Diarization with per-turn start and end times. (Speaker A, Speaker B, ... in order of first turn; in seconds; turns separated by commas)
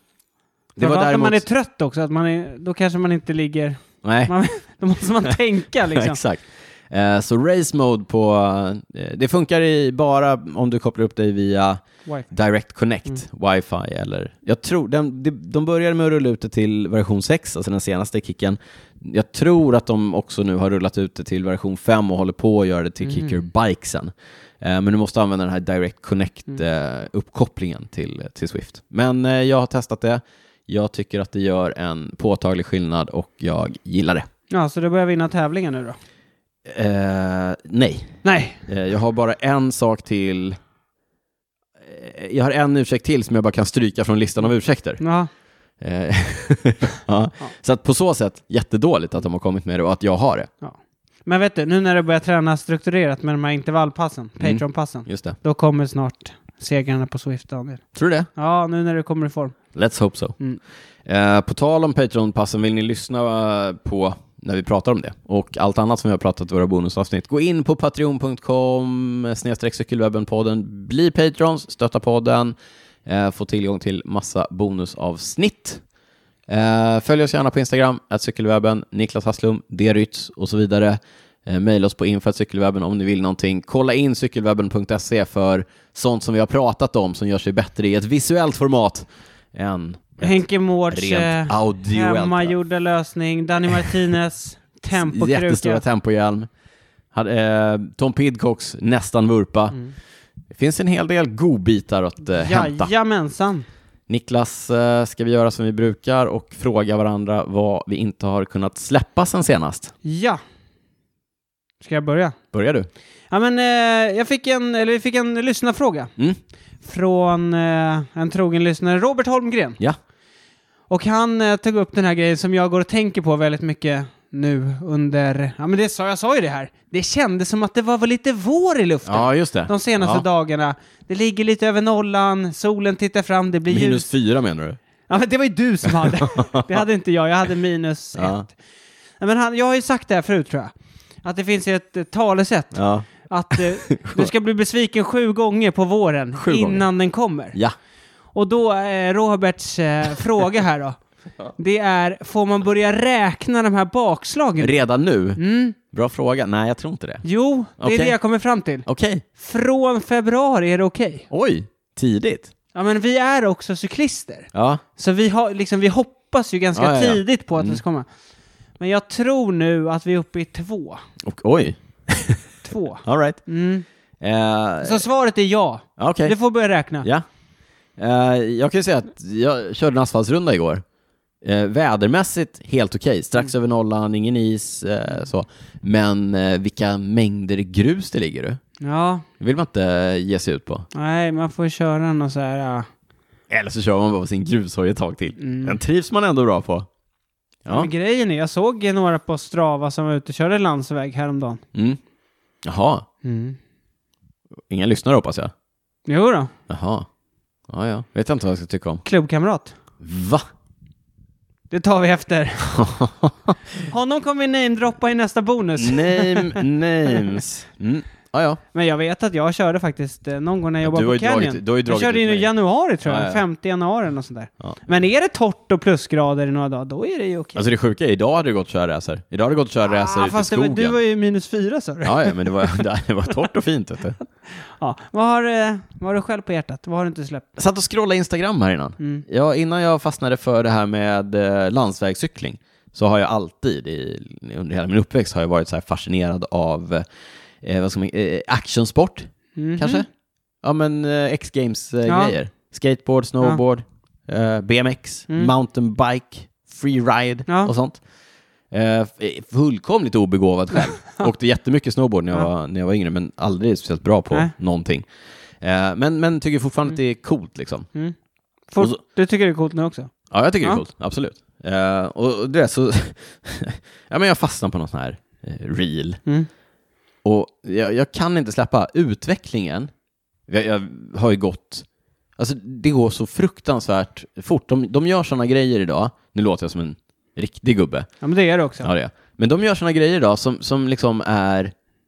Speaker A: 0.8-1.4, Speaker B: 0.8-6.2, Speaker A: 4.0-4.3, Speaker A: 5.9-34.2, Speaker B: 23.0-23.3, Speaker B: 34.5-36.0, Speaker A: 36.6-40.6, Speaker B: 38.2-38.6, Speaker A: 41.8-45.0, Speaker B: 45.0-45.3, Speaker A: 45.8-50.5, Speaker B: 50.6-57.8, Speaker A: 54.4-55.4, Speaker A: 57.9-58.3, Speaker B: 58.4-59.5, Speaker A: 59.7-60.4, Speaker A: 61.0-75.8, Speaker A: 76.5-92.5, Speaker B: 90.2-95.8, Speaker A: 94.9-96.5, Speaker A: 97.1-99.8, Speaker A: 100.5-102.9, Speaker B: 102.4-103.7, Speaker A: 104.1-109.9, Speaker B: 110.0-110.4, Speaker B: 111.8-112.4, Speaker A: 112.5-112.9, Speaker B: 113.3-116.1, Speaker B: 116.8-119.8, Speaker B: 120.9-134.1, Speaker A: 129.1-130.2, Speaker A: 133.7-134.8, Speaker B: 135.1-138.5, Speaker A: 135.9-136.7, Speaker A: 138.2-138.4, Speaker B: 139.2-140.7, Speaker B: 141.2-147.6, Speaker A: 142.7-144.3, Speaker A: 146.4-146.8, Speaker B: 148.3-151.0, Speaker B: 151.6-154.8, Speaker A: 154.6-157.2, Speaker B: 155.4-155.8, Speaker B: 157.2-161.3, Speaker A: 157.8-158.1, Speaker A: 158.8-159.2, Speaker A: 161.3-162.5, Speaker B: 162.7-168.1, Speaker A: 164.5-164.8, Speaker A: 166.7-167.8, Speaker B: 168.8-171.0, Speaker A: 171.2-172.4, Speaker B: 172.6-173.8, Speaker A: 173.0-173.4, Speaker A: 174.2-175.0, Speaker B: 174.8-177.1, Speaker A: 176.0-176.3, Speaker A: 178.0-180.8, Speaker A: 181.4-188.6, Speaker B: 188.8-189.2, Speaker A: 189.4-190.9, Speaker B: 190.9-192.9, Speaker A: 193.5-196.9, Speaker B: 195.4-195.8, Speaker B: 197.7-201.6, Speaker A: 202.6-203.1, Speaker B: 203.2-203.6, Speaker A: 204.7-205.5, Speaker B: 206.1-206.5, Speaker A: 206.7-207.1, Speaker A: 207.7-209.0, Speaker B: 209.0-209.7, Speaker A: 210.0-210.4, Speaker B: 211.7-212.8, Speaker A: 212.7-213.5, Speaker B: 213.8-217.4, Speaker A: 215.8-218.6, Speaker B: 218.7-227.6, Speaker A: 220.8-222.5, Speaker A: 223.0-223.4, Speaker A: 227.6-230.9, Speaker B: 229.9-232.8, Speaker A: 232.0-234.2, Speaker B: 234.6-237.5, Speaker A: 237.6-247.0, Speaker B: 239.0-239.2, Speaker A: 247.6-250.1, Speaker B: 249.6-250.0, Speaker A: 250.6-258.0, Speaker B: 252.1-252.3, Speaker B: 257.5-257.7, Speaker A: 258.7-265.0, Speaker A: 265.6-267.9, Speaker B: 268.7-270.1, Speaker A: 270.3-276.2, Speaker A: 277.2-279.9, Speaker A: 280.5-281.9, Speaker A: 282.4-288.1, Speaker B: 288.2-288.9, Speaker A: 288.8-291.7